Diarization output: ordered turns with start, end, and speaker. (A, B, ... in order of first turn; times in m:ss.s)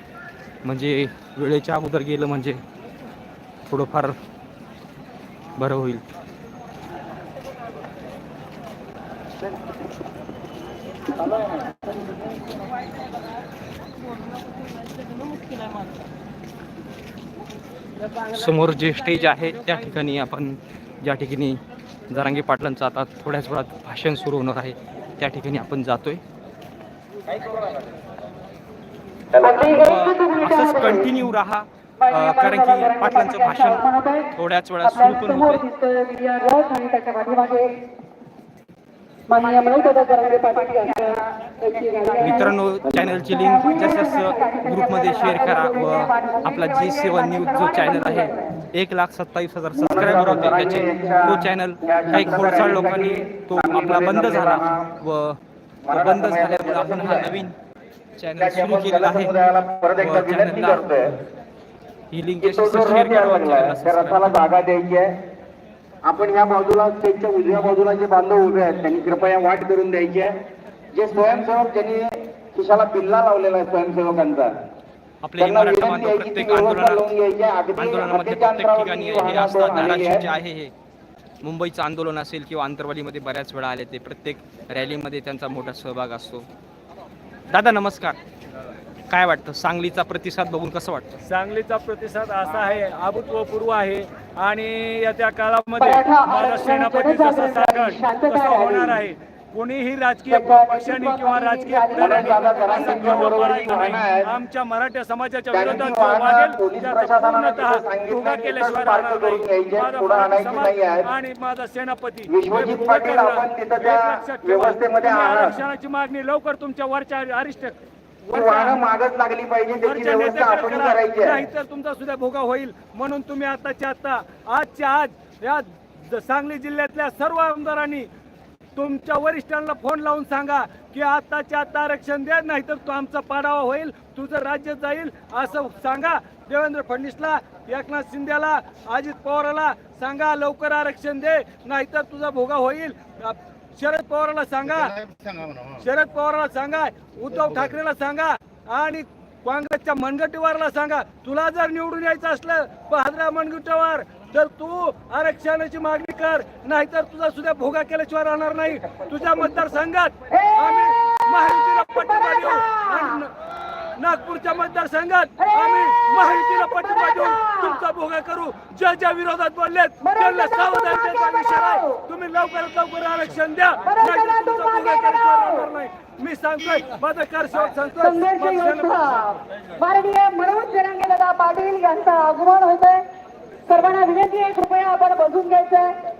0:00.6-0:02.6 A
0:03.7-0:04.2 A
0:05.6-0:06.0 A
0:11.2-0:11.7 B
0:18.3-0:26.2 A
0:27.3-0:27.8 B
0:29.4-0:31.1 C
0:29.5-0:35.6 A
0:32.0-0:37.9 C
0:39.3-0:42.5 C
0:42.2-0:55.4 A
0:43.6-0:48.4 C
0:49.7-0:54.9 B
0:55.8-0:57.4 B
0:55.9-0:57.6 A
0:58.2-0:59.3 A
0:58.4-1:01.1 B
1:00.0-1:00.9 A
1:02.1-1:04.3 A
1:02.4-1:05.1 B
1:06.0-1:10.4 B
1:10.9-1:14.5 B
1:15.2-1:17.0 A
1:15.4-1:20.3 B
1:17.8-1:20.7 A
1:21.4-1:26.5 A
1:27.5-1:28.2 A
1:29.1-1:31.2 A
1:31.2-1:58.8 D
1:35.8-1:39.0 C
1:40.3-1:42.6 C
1:42.0-1:44.3 B
1:45.5-1:51.1 B
1:52.3-1:55.6 B
1:58.3-2:01.4 B
1:59.8-2:08.1 D
2:08.7-2:43.3 D
2:40.3-2:41.0 C
2:42.0-2:43.2 C
2:43.9-2:59.1 D
2:45.4-2:47.8 C
2:50.0-2:52.1 C
2:53.8-2:55.7 C
2:58.0-3:03.1 C
3:03.7-3:06.0 C